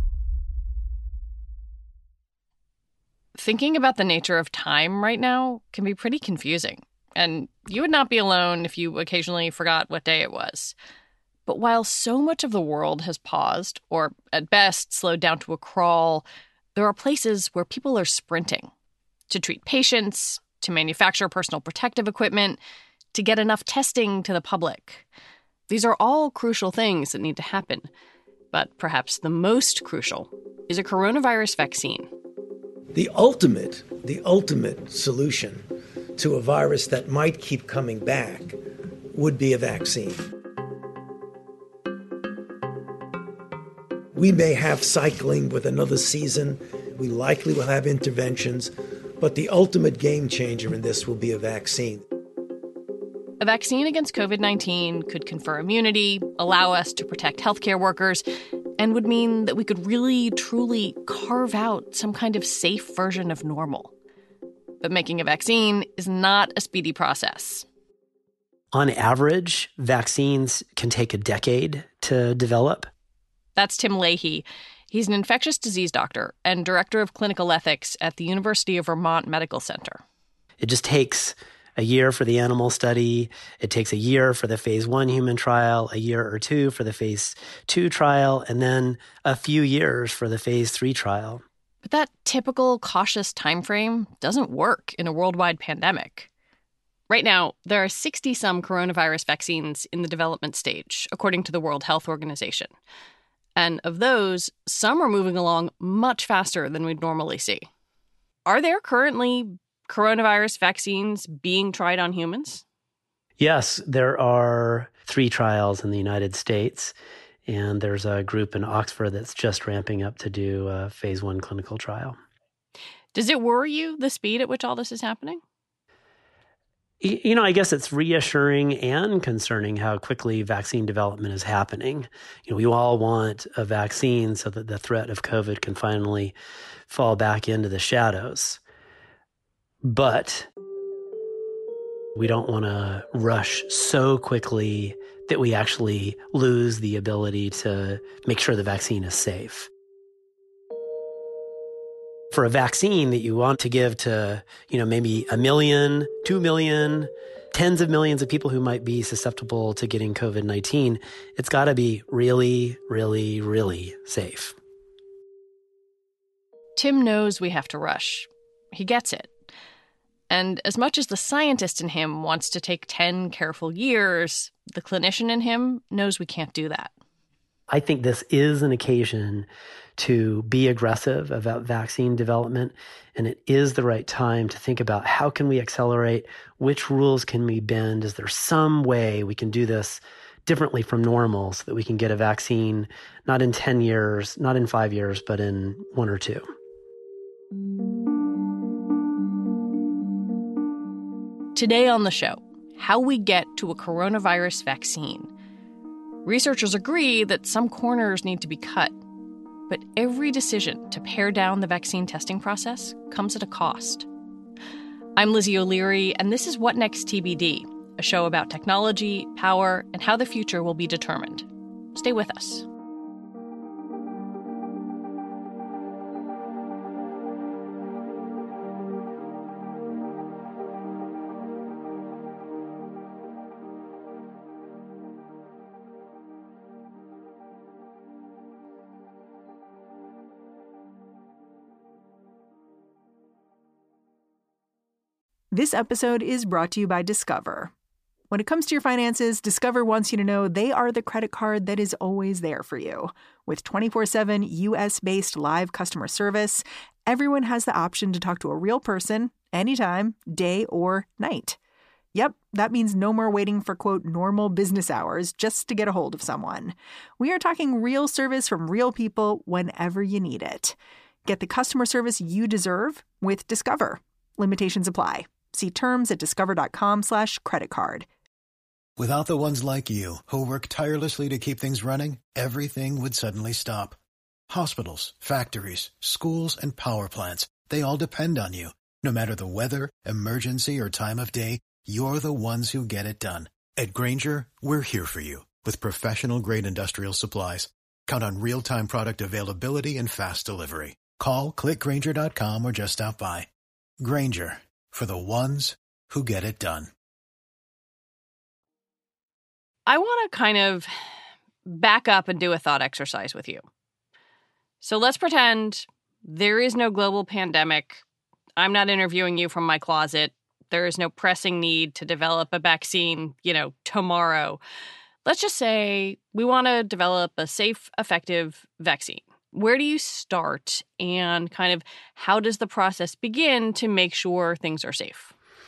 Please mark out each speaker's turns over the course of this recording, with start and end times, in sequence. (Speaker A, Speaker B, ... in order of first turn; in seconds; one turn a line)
Speaker A: 3.4-10.7
Speaker A: 11.4-18.7
Speaker A: 19.3-22.6
Speaker A: 23.1-25.0
Speaker A: 25.7-27.9
Speaker A: 28.5-32.1
Speaker B: 32.9-35.6
Speaker B: 36.2-38.6
Speaker B: 39.1-40.2
Speaker B: 44.1-52.0
Speaker A: 53.4-58.2
Speaker A: 58.8-63.9
Speaker A: 64.8-67.7
Speaker C: 68.7-72.9
Speaker A: 73.5-80.0
Speaker C: 80.6-91.4
Speaker A: 91.8-96.3
Speaker A: 97.1-102.7
Speaker A: 103.5-107.7
Speaker A: 108.5-112.6
Speaker C: 113.4-116.9
Speaker C: 117.5-122.2
Speaker A: 123.1-125.4
Speaker C: 127.0-136.3
Speaker C: 136.9-138.6
Speaker C: 139.8-140.5
Speaker C: 142.1-149.7
Speaker C: 152.3-164.6
Speaker A: 166.8-169.3
Speaker A: 170.3-176.9
Speaker C: 177.7-196.5
Speaker A: 201.5-205.3
Speaker A: 206.2-208.9
Speaker A: 209.7-214.1
Speaker A: 215.2-222.7
Speaker D: 245.5-247.7
Speaker D: 248.3-261.6
Speaker D: 262.1-270.7
Speaker D: 271.2-278.1
Speaker E: 279.0-284.0
Speaker E: 284.5-303.5
Speaker E: 304.0-306.9
Speaker A: 309.9-310.9
Speaker A: 311.6-313.6
Speaker A: 314.8-318.0
Speaker A: 318.6-324.6
Speaker A: 325.2-335.3